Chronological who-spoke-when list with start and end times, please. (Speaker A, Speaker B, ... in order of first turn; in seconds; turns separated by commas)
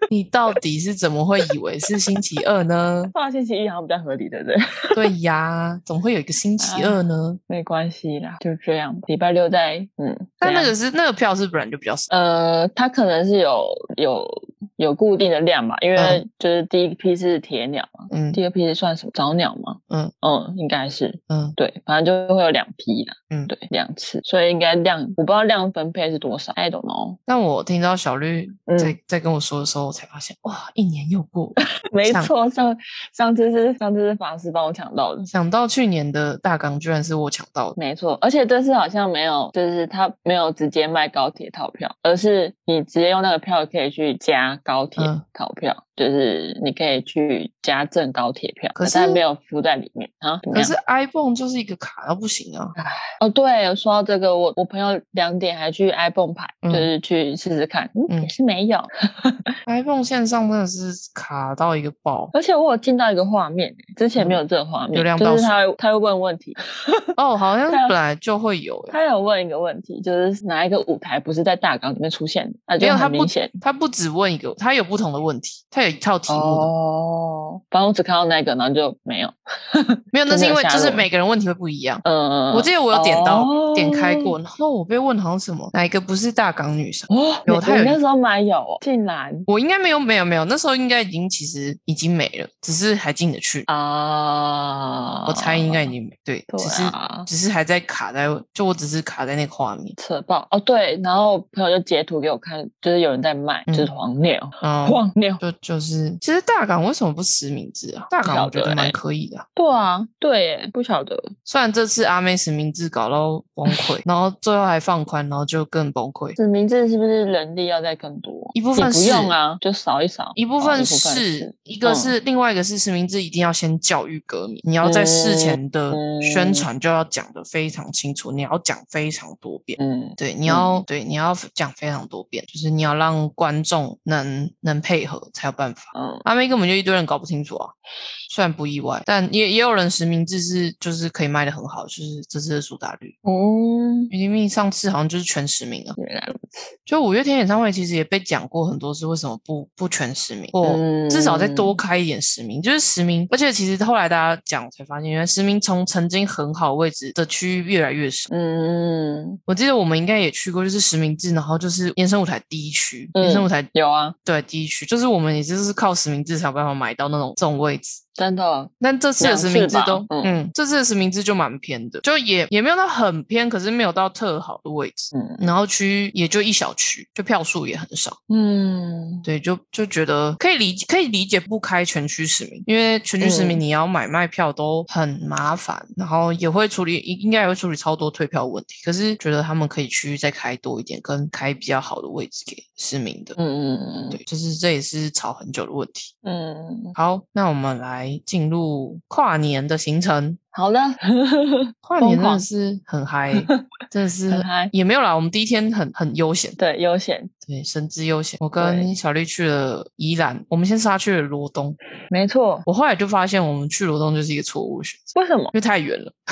Speaker A: 0.1-3.1, Speaker B: 3.1-5.0, Speaker A: 5.0-7.4, Speaker B: 6.6-10.7, Speaker A: 10.4-12.1, Speaker B: 12.1-27.2, Speaker A: 15.9-16.2, Speaker A: 18.1-18.4, Speaker A: 21.3-21.6, Speaker A: 27.3-32.3, Speaker B: 28.7-29.0, Speaker B: 31.9-35.3, Speaker A: 35.3-37.8, Speaker B: 37.8-50.7, Speaker A: 45.0-45.2, Speaker A: 48.7-49.2, Speaker A: 50.5-52.7, Speaker B: 52.8-59.5, Speaker A: 56.6-56.9, Speaker A: 59.6-62.3, Speaker B: 62.3-67.0, Speaker A: 64.2-64.4, Speaker A: 64.9-65.5, Speaker A: 67.2-69.0, Speaker B: 67.7-67.9, Speaker B: 68.9-73.5, Speaker A: 72.8-76.7, Speaker B: 76.3-81.1, Speaker A: 80.1-88.0, Speaker B: 82.0-84.4, Speaker B: 87.1-89.5, Speaker A: 89.5-93.7, Speaker B: 93.7-95.9, Speaker A: 95.3-99.9, Speaker B: 96.5-97.3, Speaker B: 100.0-105.4, Speaker A: 103.7-103.9, Speaker A: 104.6-109.5, Speaker B: 108.2-109.0, Speaker B: 109.5-111.3, Speaker A: 111.4-116.4, Speaker B: 113.7-114.0, Speaker B: 116.3-122.1, Speaker A: 118.5-119.3, Speaker A: 120.3-137.7, Speaker B: 124.8-126.7, Speaker B: 129.8-130.8, Speaker B: 135.9-136.2, Speaker A: 138.3-143.2, Speaker B: 143.2-144.1, Speaker A: 144.1-146.0, Speaker B: 146.0-146.7, Speaker A: 146.8-158.3, Speaker B: 150.6-151.8, Speaker B: 158.3-159.4, Speaker A: 159.5-163.7, Speaker B: 163.1-164.2, Speaker A: 164.2-168.0, Speaker B: 168.2-170.4, Speaker A: 168.8-178.2, Speaker B: 175.1-175.5, Speaker B: 178.3-179.2, Speaker A: 179.2-193.4, Speaker B: 183.2-183.6, Speaker B: 193.4-194.2, Speaker A: 194.1-196.1, Speaker B: 196.2-196.9, Speaker A: 196.9-200.4, Speaker B: 200.5-202.4, Speaker A: 201.8-206.6, Speaker B: 203.3-203.6, Speaker B: 204.3-204.7, Speaker B: 206.6-207.3, Speaker A: 207.4-211.8, Speaker B: 208.6-208.9, Speaker B: 212.1-212.7, Speaker A: 212.7-216.2, Speaker B: 215.1-215.5